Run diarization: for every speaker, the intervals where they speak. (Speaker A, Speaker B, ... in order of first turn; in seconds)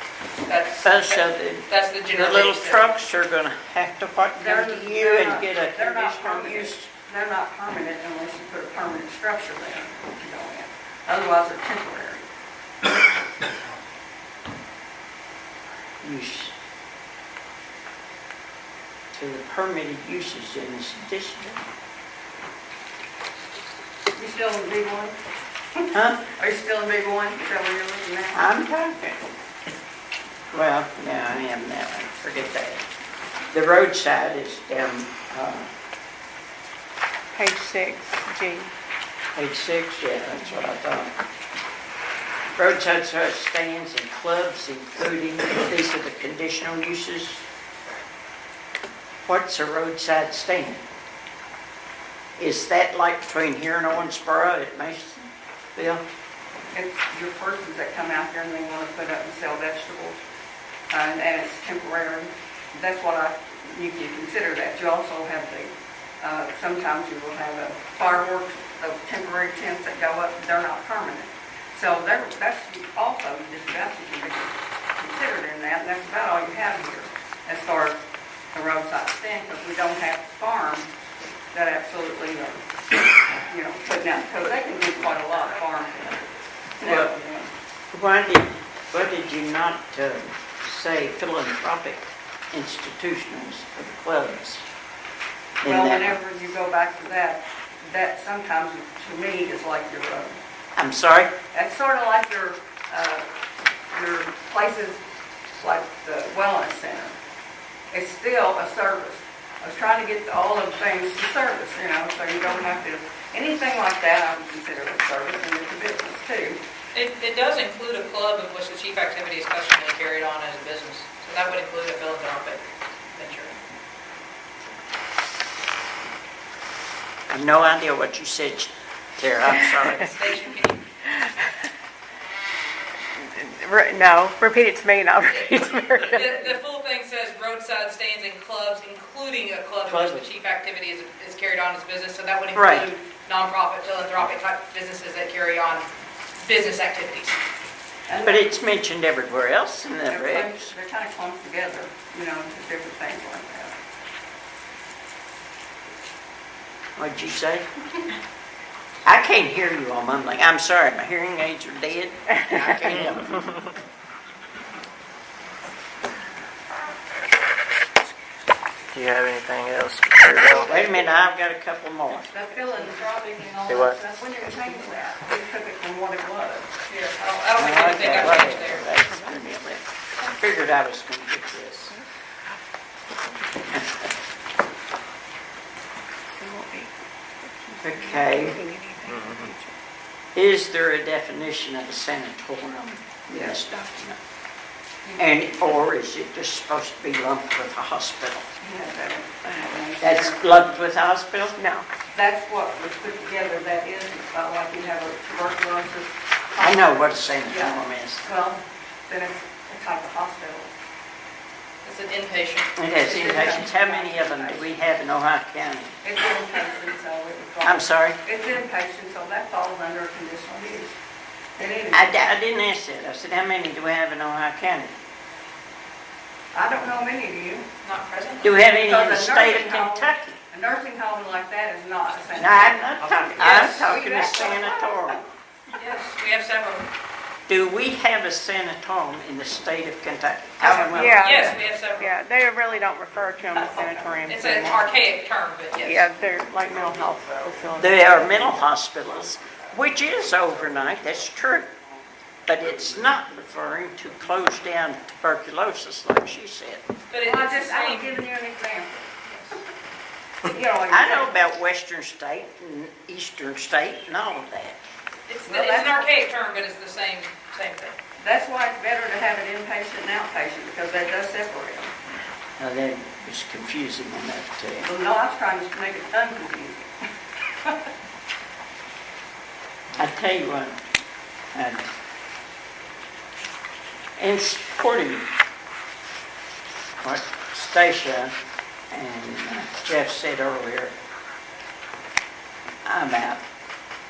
Speaker A: 0.5-2.8, 117.0-123.6, 130.0-130.8, 135.3-145.9, 146.4-147.4, 176.9-178.9, 211.8-212.7, 227.8-228.6, 235.7-236.9, 240.6-242.1, 244.3-246.1, 257.1-258.2, 259.3-259.6, 265.3-268.0
Speaker B: 0.8-6.9, 16.0-16.5, 19.1-21.6, 25.9-26.3, 28.3-29.2, 30.5-32.9, 33.5-35.7, 39.4-41.1, 42.5-47.4, 49.2-50.8, 52.4-56.0, 86.8-87.1, 87.9-94.6, 95.6-96.2, 100.8-101.3, 127.3-130.2, 139.9-140.3, 142.5-142.9, 148.2-150.7, 157.0-157.7, 159.1-163.5, 170.5-172.3, 177.6-181.9, 187.8-188.6, 190.3-194.2, 195.2-198.5, 200.0-201.6, 206.6-208.3, 212.8-216.0, 217.6-218.2, 221.9-224.9, 228.4-230.4, 232.4-235.2, 237.5-241.6, 247.8-251.7, 252.5-256.8, 260.9-264.8, 272.6-274.9, 280.0-280.8, 281.6-281.9, 284.2-285.3, 287.0-288.3, 288.9-290.9, 292.9-293.4
Speaker C: 4.4-12.3, 24.2-25.2, 25.8-28.4, 56.7-60.2, 60.9-78.0, 78.5-80.9, 81.5-82.6, 83.5-86.3, 86.8-87.5, 95.7-100.4, 101.5-103.2, 103.9-105.0, 105.5-107.2, 107.9-116.6, 148.1-148.5, 150.1-153.8, 172.3-176.7, 193.3-193.6, 195.1-195.6, 198.6-200.8, 202.1-206.9, 207.5-210.7, 213.0-214.7, 216.0-221.0, 221.6-222.1, 226.5-227.7, 228.8-234.8, 257.2-259.2, 260.5-261.3, 265.5-266.1, 268.2-271.9, 274.8-276.9
Speaker D: 37.3-38.7, 133.2-136.4, 162.5-162.9, 179.2-179.5, 183.5-183.8, 186.4-189.8, 201.6-201.9, 240.9-241.5, 242.0-244.9, 245.8-248.5
Speaker E: 168.9-170.8, 173.7-174.0